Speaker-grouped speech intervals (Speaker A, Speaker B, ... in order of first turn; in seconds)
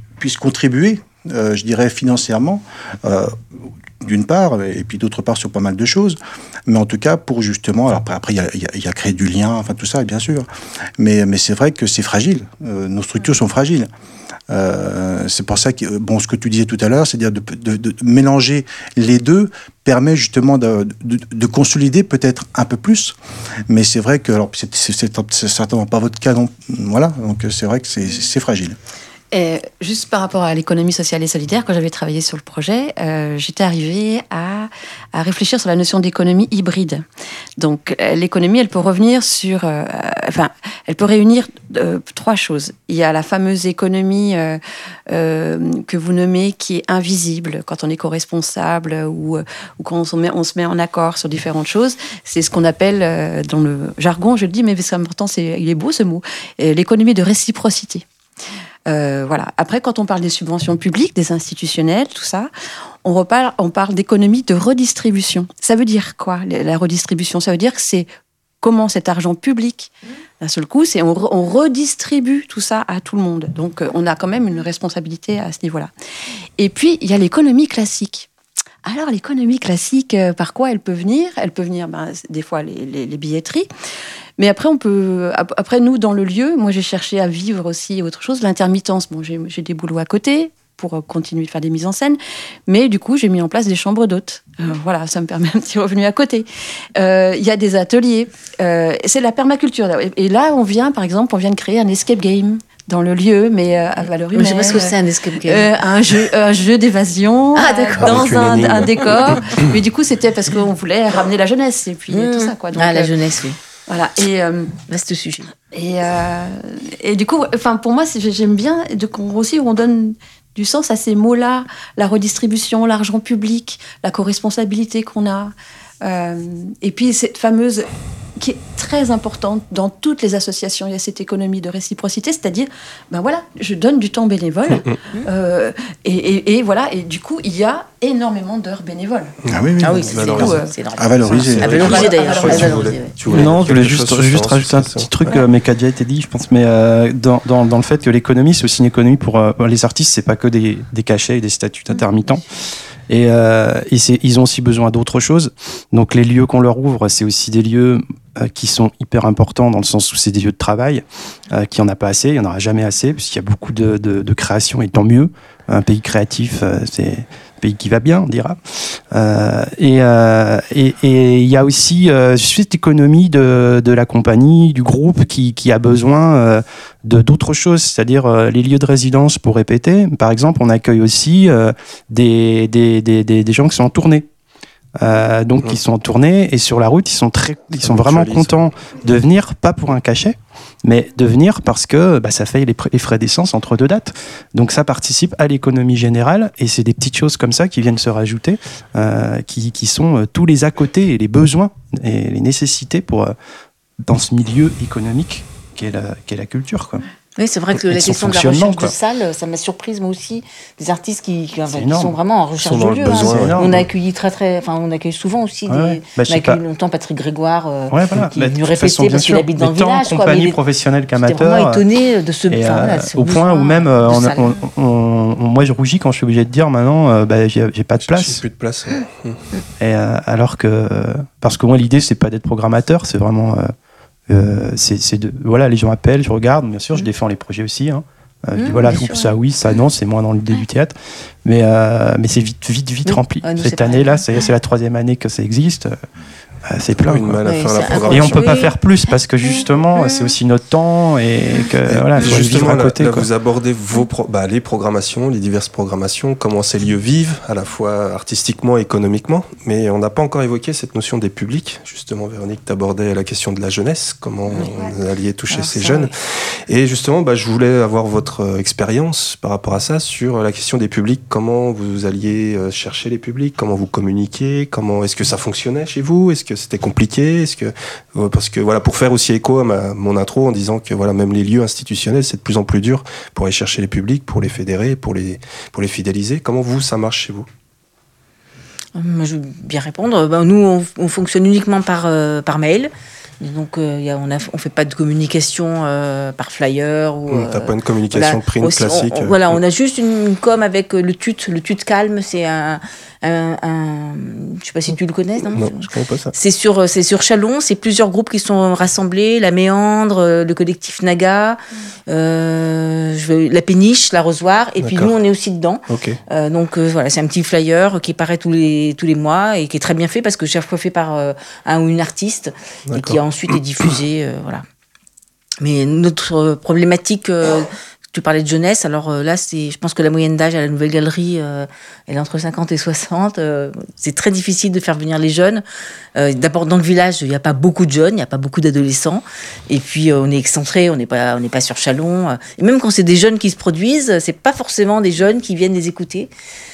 Speaker A: 0.2-3.4, 4.0-10.5, 11.0-13.9, 14.5-23.1, 23.7-28.8, 139.5-140.3, 141.0-142.1
Speaker B: 29.3-37.0, 37.6-58.0, 58.9-62.5, 63.0-68.1, 68.6-75.9, 76.6-78.3, 78.8-83.7, 84.4-113.1, 113.9-114.8, 115.7-139.3, 139.9-140.7, 141.3-142.9, 264.6-264.9
Speaker C: 104.3-105.7, 107.5-108.8, 112.1-113.6, 114.9-115.5, 139.8-143.5, 207.4-220.6, 221.2-224.5, 238.6-239.3, 243.1-244.2, 247.4-248.7, 250.0-250.3, 265.5-266.1, 288.9-324.6, 325.6-335.6, 336.1-346.3
Speaker D: 108.0-109.7, 134.7-135.0, 139.4-140.6, 141.2-145.3, 187.8-188.7, 212.6-213.8, 228.0-229.4, 246.9-248.6, 251.8-287.5, 297.3-299.6, 305.5-306.3, 314.8-315.1, 315.9-316.2, 322.9-323.6
Speaker E: 143.3-152.4, 153.1-184.3, 185.0-203.3, 204.0-207.0, 207.8-208.9, 211.7-212.2, 212.8-213.8, 215.7-216.6, 217.9-221.8, 222.5-228.4, 229.8-233.7, 234.3-246.0, 246.7-247.4, 248.1-253.3